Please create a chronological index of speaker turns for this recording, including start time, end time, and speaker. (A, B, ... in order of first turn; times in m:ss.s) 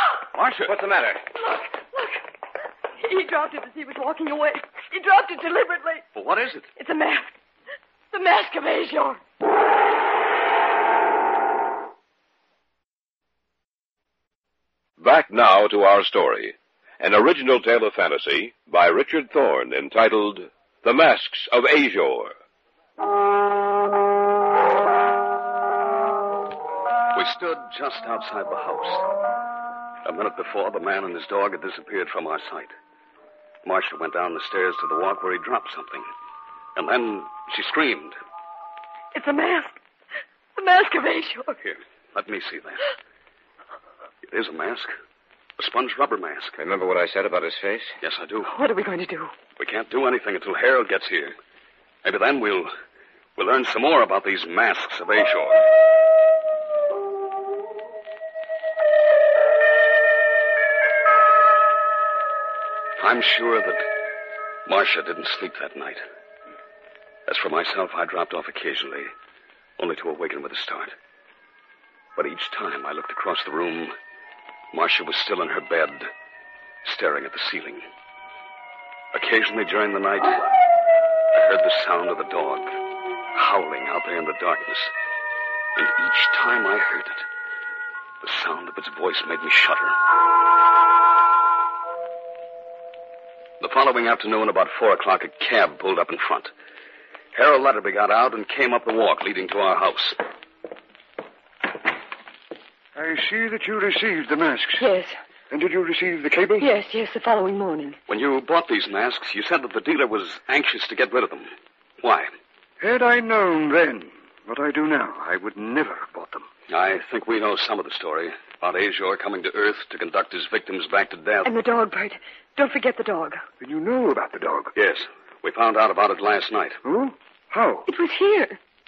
0:00.3-0:00.8 A
0:00.7-0:01.2 B
0:01.4-0:02.2 C
0:03.0-0:06.0 C
0:06.2-0:06.7 A
0:06.8-0:07.4 C
0:08.1-0:09.2 C
0:15.0-0:22.3 D
0:27.1-0:29.0 A
0:30.0-0:32.7 A
0:33.6-0:36.1 A
0:36.8-0:38.2 A
0:39.1-0:39.8 C
0:40.6-0:41.6 C
0:41.6-0:42.8 A
0:44.2-0:44.9 A
0:45.6-0:46.6 A
0:46.6-0:48.0 B
0:48.0-0:48.5 A
0:48.4-0:49.3 C
0:49.6-0:51.4 A
0:52.0-0:52.7 A
0:53.4-0:55.7 A
1:03.0-1:03.8 A
1:04.7-1:06.0 A
1:07.3-1:09.1 A
1:09.8-1:11.0 A
1:12.2-1:13.9 A
1:14.7-1:16.1 A
1:16.8-1:17.8 A
1:19.1-1:20.5 A
1:21.3-1:22.8 A
1:23.4-1:24.9 A
1:25.8-1:27.3 A
1:28.2-1:30.0 A
1:33.6-1:36.5 A
1:37.3-1:40.2 A
1:43.0-1:44.9 E
1:44.8-1:45.2 C
1:45.5-1:46.7 E
1:46.6-1:48.0 C
1:48.1-1:52.3 A
1:52.8-1:56.5 E
1:56.7-2:01.5 A
2:01.4-2:03.4 C
2:03.6-2:04.7 E
2:04.8-2:06.8 A
2:06.8-2:07.9 E
2:07.9-2:08.6 C